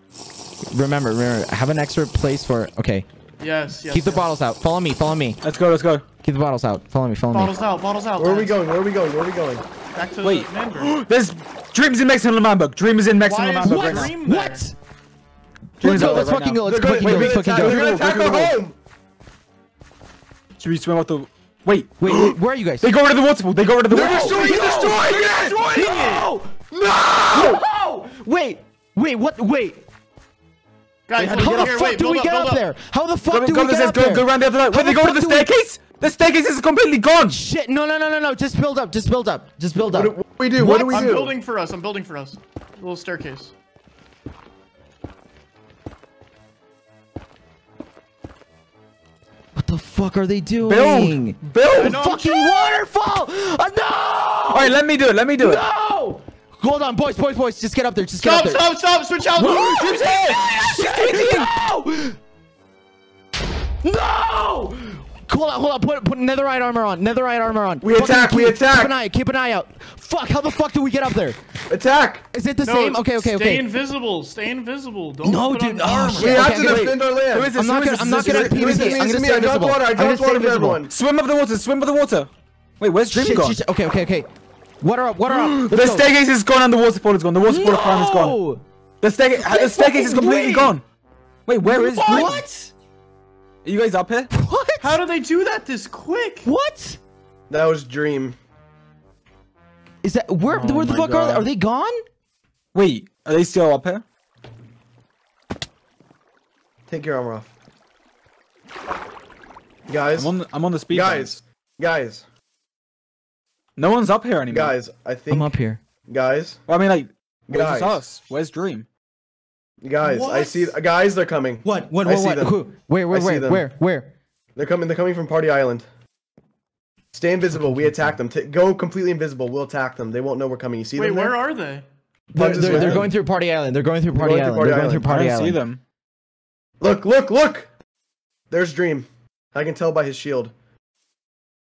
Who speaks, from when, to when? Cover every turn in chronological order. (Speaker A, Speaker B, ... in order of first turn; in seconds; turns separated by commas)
Speaker A: 0.7-3.1, Speaker B: 3.4-4.3, Speaker A: 3.9-5.4, Speaker C: 5.4-6.0, Speaker A: 6.2-7.6, Speaker B: 7.3-8.6, Speaker D: 8.2-9.7, Speaker B: 9.9-11.0, Speaker C: 10.2-14.2, Speaker B: 13.2-14.7, Speaker A: 13.6-14.8, Speaker C: 15.8-18.6, Speaker A: 15.8-17.8, Speaker D: 16.1-18.8, Speaker C: 20.6-24.9, Speaker A: 22.0-22.9, Speaker D: 23.9-25.7, Speaker A: 23.9-26.6, Speaker B: 24.9-26.3, Speaker D: 26.7-27.6, Speaker A: 27.3-29.8, Speaker B: 31.1-32.7, Speaker A: 31.2-35.5, Speaker C: 33.3-37.4, Speaker A: 37.2-41.1, Speaker D: 39.9-41.3, Speaker B: 40.8-43.5, Speaker A: 49.5-54.8, Speaker C: 50.6-52.0, Speaker B: 51.8-52.6, Speaker C: 54.5-55.6, Speaker A: 55.4-58.7, Speaker B: 58.2-60.3, Speaker C: 59.4-61.5, Speaker A: 59.8-62.2, Speaker A: 63.8-71.4, Speaker D: 67.8-68.9, Speaker D: 71.7-72.3, Speaker A: 72.3-73.7, Speaker B: 72.6-76.5, Speaker A: 75.2-77.0, Speaker D: 76.1-77.5, Speaker C: 76.5-79.0, Speaker A: 77.5-80.8, Speaker D: 78.2-80.9, Speaker C: 80.9-83.6, Speaker A: 83.1-84.3, Speaker A: 84.8-86.1, Speaker C: 85.3-88.4, Speaker A: 87.4-88.6, Speaker C: 89.0-90.8, Speaker A: 89.4-90.8, Speaker C: 91.5-92.4, Speaker B: 91.6-92.5, Speaker A: 92.0-92.7, Speaker C: 93.6-94.3, Speaker A: 94.3-95.0, Speaker B: 94.8-96.5, Speaker A: 96.5-97.0, Speaker D: 97.5-98.4, Speaker A: 100.0-102.0, Speaker C: 100.4-101.5, Speaker C: 102.7-104.0, Speaker D: 106.9-107.5, Speaker D: 109.9-110.3, Speaker C: 110.1-111.4, Speaker D: 110.9-112.2, Speaker C: 113.8-114.7, Speaker D: 114.5-115.5, Speaker A: 115.3-115.8, Speaker D: 116.1-116.6, Speaker C: 116.7-118.9, Speaker D: 117.5-118.0, Speaker D: 119.8-122.6, Speaker A: 120.0-120.7, Speaker A: 121.7-124.1, Speaker D: 123.1-123.7, Speaker D: 124.6-125.9, Speaker D: 127.1-131.4, Speaker B: 131.0-131.9, Speaker A: 132.3-135.6, Speaker D: 132.3-133.2, Speaker D: 134.2-135.1, Speaker C: 135.0-135.8, Speaker D: 136.8-137.7, Speaker D: 138.5-140.5